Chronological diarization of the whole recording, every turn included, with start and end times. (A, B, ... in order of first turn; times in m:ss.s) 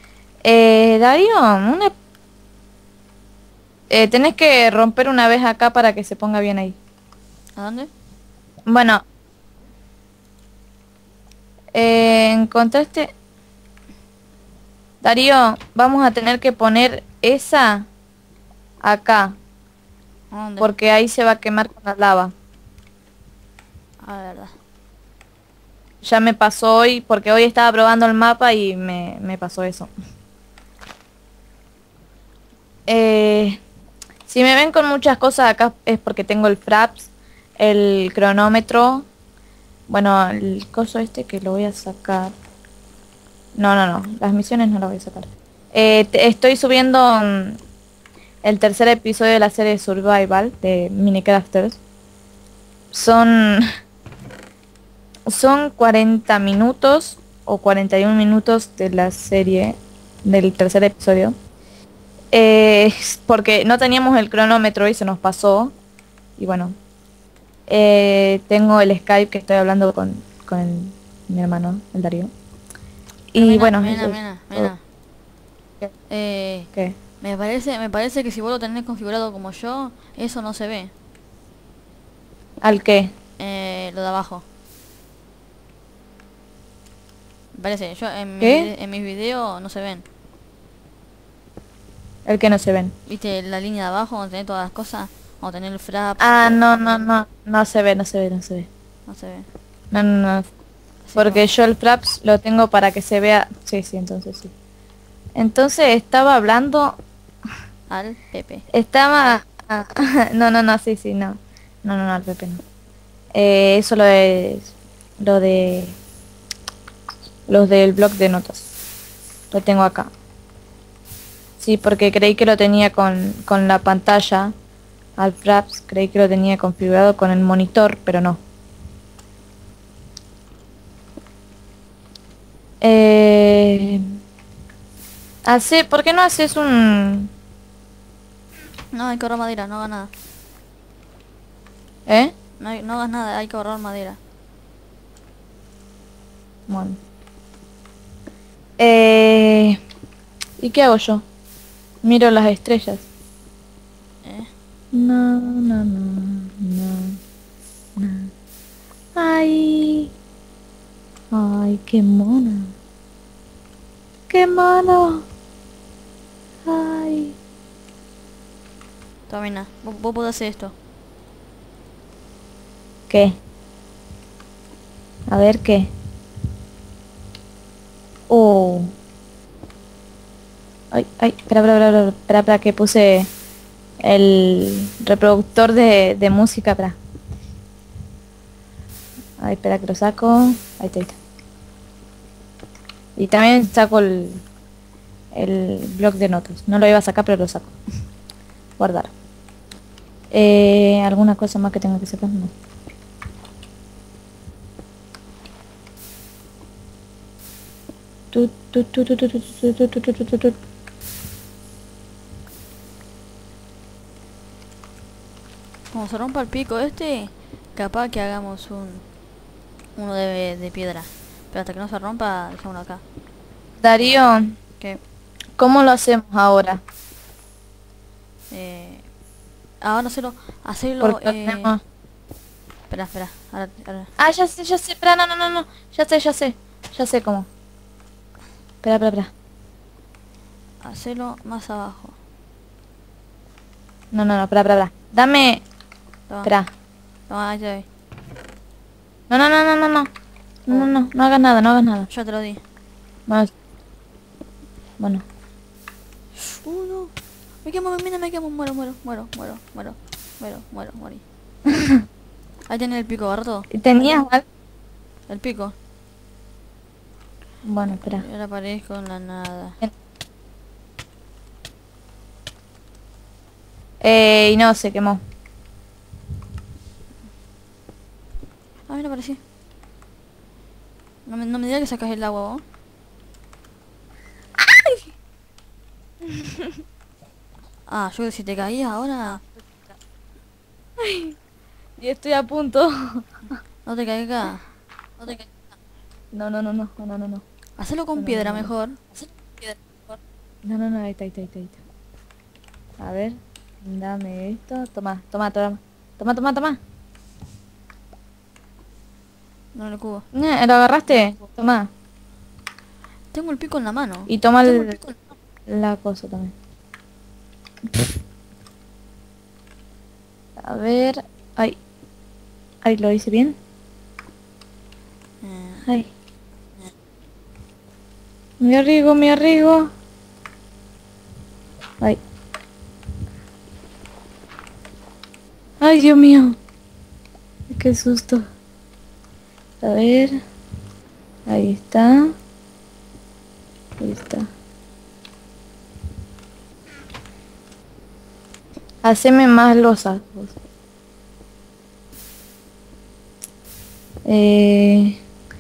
0:00.4-0:01.9 A
0:03.9-0:06.8 A
0:07.6-0:07.9 B
0:08.7-0:09.0 A
0:11.7-0:13.1 A
0:15.0-0:17.9 A
0:18.8-0:19.4 A
0:20.3-0:20.7 B
0:20.6-0:22.3 A
0:24.0-0:24.5 B
0:26.0-0:29.9 A
0:32.9-0:33.6 A
0:34.3-0:39.1 A
0:39.9-0:42.3 A
0:43.6-0:47.6 A
0:48.4-0:51.8 A
0:52.9-0:53.7 A
0:55.3-1:01.4 A
1:02.3-1:05.7 A
1:06.4-1:06.8 A
1:07.7-1:12.3 A
1:13.3-1:14.7 A
1:13.4-1:14.8 B
1:16.1-1:20.9 B
1:22.6-1:23.1 A
1:23.4-1:24.4 B
1:27.5-1:30.0 B
1:28.4-1:28.7 A
1:32.3-1:32.9 A
1:33.1-1:37.1 B
1:36.2-1:38.7 A
1:39.1-1:39.5 B
1:39.9-1:40.5 A
1:41.1-1:41.4 B
1:41.2-1:44.5 A
1:45.4-1:47.0 A
1:47.9-1:48.7 B
1:48.7-1:52.6 A
1:53.3-1:56.0 A
1:57.5-1:58.7 A
1:59.5-2:00.1 A
2:01.6-2:04.5 A
2:05.2-2:08.4 A
2:12.8-2:14.0 A
2:15.4-2:17.3 A
2:18.9-2:20.1 B
2:22.1-2:22.3 A
2:22.6-2:24.2 B
2:26.7-2:27.0 A
2:28.8-2:29.8 A
2:30.6-2:31.2 A
2:32.0-2:33.0 A
2:34.2-2:34.5 B
2:34.9-2:37.2 A
2:38.0-2:38.3 A
2:39.2-2:40.1 A
2:41.3-2:42.7 A
2:44.3-2:45.2 A
2:46.6-2:47.4 A
2:49.3-2:50.8 B
2:53.1-2:53.4 A
2:55.3-2:55.9 A
2:58.3-2:58.9 A
3:00.9-3:03.3 A
3:04.0-3:07.0 A
3:09.4-3:11.2 A
3:13.2-3:14.4 A
3:15.3-3:17.7 A
3:18.8-3:19.1 A
3:20.3-3:22.5 A
3:28.3-3:30.6 A
3:35.9-3:39.0 B
3:40.0-3:43.0 B
3:43.8-3:44.5 A
3:45.6-3:46.8 A
3:48.5-3:49.1 B
3:49.8-3:51.8 B
3:51.0-3:51.8 A
3:52.9-3:54.1 B
3:54.2-3:57.5 A
3:58.8-3:59.3 A
4:00.8-4:02.2 B
4:04.1-4:05.6 A
4:06.4-4:06.7 A
4:07.3-4:07.9 B
4:09.3-4:10.1 A
4:10.7-4:12.1 A
4:12.1-4:12.6 B
4:13.3-4:13.5 A
4:15.0-4:15.2 A
4:16.4-4:21.2 B
4:21.7-4:22.0 A
4:22.7-4:23.7 B
4:23.7-4:24.4 A
4:25.3-4:25.8 B
4:27.6-4:28.2 A
4:27.9-4:29.8 B
4:34.0-4:35.2 A
4:38.9-4:39.4 B
4:41.3-4:42.6 B
4:44.6-4:45.0 A
4:46.3-4:46.7 A
4:47.9-4:49.4 B
4:51.0-4:51.4 A
4:52.0-4:53.3 A
4:53.8-4:55.5 B
4:56.3-4:57.4 A
4:57.8-4:59.0 B
4:58.2-5:01.8 A
5:03.0-5:06.8 A
5:09.8-5:10.3 B
5:10.3-5:11.9 A
5:13.3-5:15.2 B
5:14.3-5:15.0 A
5:15.7-5:16.5 A
5:20.6-5:21.8 A
5:22.8-5:23.6 A
5:25.4-5:25.9 B
5:28.6-5:29.9 A
5:35.8-5:36.6 A
5:37.7-5:38.5 A
5:39.8-5:40.4 A
5:41.5-5:42.3 A
5:44.0-5:44.5 A
5:49.0-5:50.5 A
5:54.3-5:55.2 A